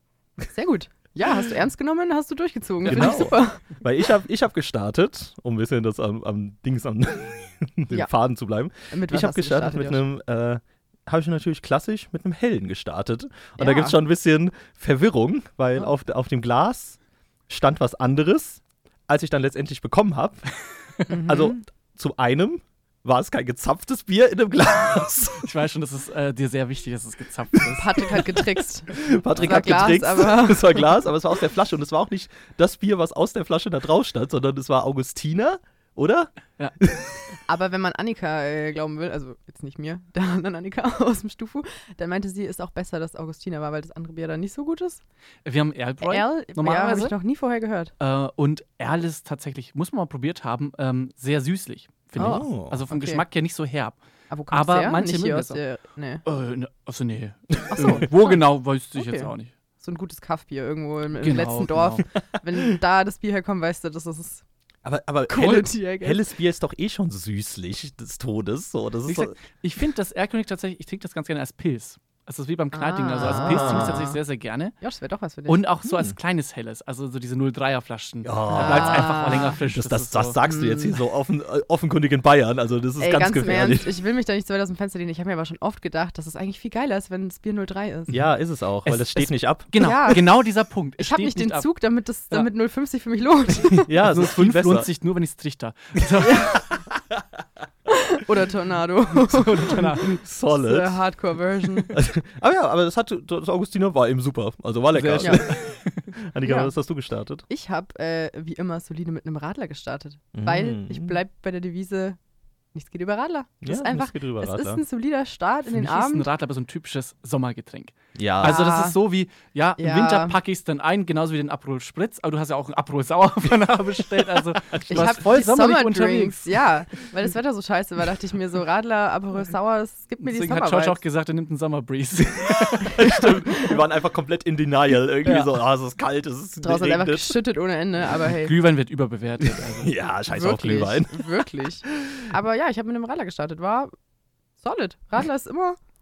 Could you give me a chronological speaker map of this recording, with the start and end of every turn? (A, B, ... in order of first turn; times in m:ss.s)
0:00.5-0:03.6 A
0:02.9-0:20.5 B
0:02.9-0:03.3 C
0:08.9-0:10.0 A
0:13.6-0:14.0 A
0:21.1-0:21.6 A
0:21.3-0:25.5 B
0:25.4-0:28.3 C
0:27.8-0:30.9 A
0:28.9-0:37.1 B
0:29.4-0:29.7 C
0:37.5-0:45.0 A
0:45.4-0:47.2 C
0:46.1-0:47.9 A
0:48.0-0:54.0 C
0:52.2-0:52.8 B
0:52.2-0:53.2 A
0:54.3-0:56.2 A
0:54.5-0:55.6 C
0:56.2-0:59.5 C
0:57.7-0:58.4 A
0:59.0-1:04.4 A
1:01.2-1:02.0 C
1:04.8-1:09.4 B
1:05.3-1:06.2 A
1:09.1-1:14.8 C
1:12.7-1:14.2 A
1:13.2-1:14.0 B
1:14.8-1:15.6 A
1:15.5-1:20.4 C
1:18.2-1:23.9 B
1:18.5-1:19.6 A
1:20.5-1:20.9 A
1:23.0-1:28.2 A
1:28.1-1:29.7 B
1:28.8-1:31.7 C
1:29.8-1:30.4 A
1:31.0-1:33.9 A
1:33.7-1:34.9 B
1:34.1-1:36.6 C
1:36.2-1:36.7 A
1:37.9-1:42.0 A
1:39.2-1:40.2 C
1:40.2-1:41.0 B
1:41.9-1:47.5 B
1:44.9-1:46.1 C
1:46.4-1:46.7 A
1:47.5-1:52.2 A
1:50.3-1:51.2 B
1:52.7-1:56.3 A
1:53.6-1:54.8 B
1:55.7-2:06.5 C
1:58.2-1:58.6 B
1:58.4-1:59.0 A
1:59.8-2:00.4 A
2:04.7-2:05.1 B
2:04.9-2:11.0 A
2:10.2-2:13.0 C
2:12.8-2:17.4 B
2:15.3-2:15.5 C
2:16.6-2:18.5 A
2:18.2-2:19.9 C
2:19.8-2:22.3 B
2:20.3-2:23.9 A
2:24.6-2:25.8 A